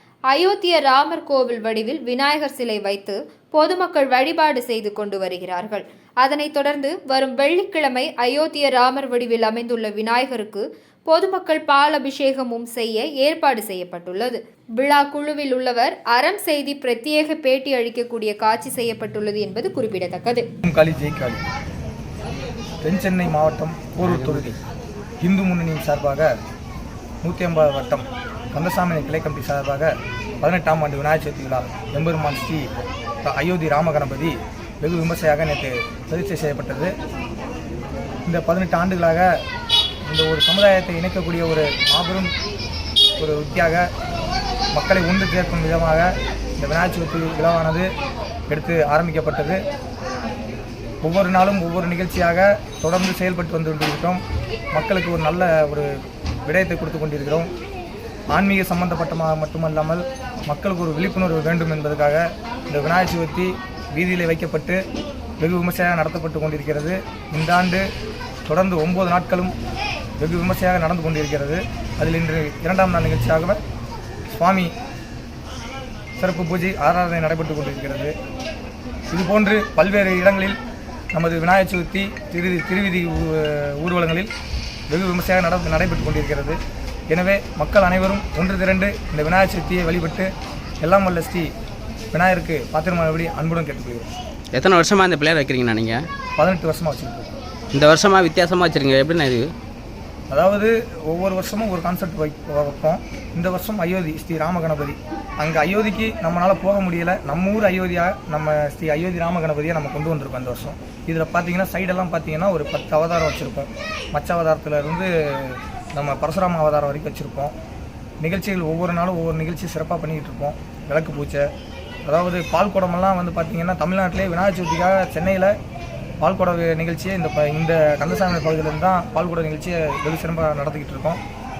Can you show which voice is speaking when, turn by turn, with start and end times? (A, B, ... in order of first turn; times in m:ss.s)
0:00.3-0:20.5 A
0:20.6-0:21.4 B
0:22.8-0:24.6 B
0:24.0-0:24.6 C
0:25.2-0:26.3 B
0:27.2-0:32.7 B
0:33.2-0:36.9 B
0:38.2-0:39.4 B
0:40.0-0:42.3 B
0:43.2-0:43.9 B
0:44.7-0:47.9 B
0:48.5-0:49.6 B
0:51.0-0:54.2 B
0:54.7-0:55.9 B
0:56.4-0:57.5 B
0:58.3-1:04.8 B
1:05.4-1:07.9 B
1:08.4-1:09.5 B
1:10.2-1:13.6 B
1:14.3-1:14.7 B
1:16.2-1:18.1 B
1:19.1-1:20.6 B
1:21.1-1:24.3 B
1:24.9-1:30.3 B
1:30.8-1:31.5 B
1:32.1-1:34.1 B
1:34.5-1:36.0 C
1:36.4-1:37.3 B
1:37.7-1:39.5 C
1:40.3-1:57.5 B
1:58.2-2:01.5 B
2:02.0-2:05.5 B
2:06.2-2:11.2 B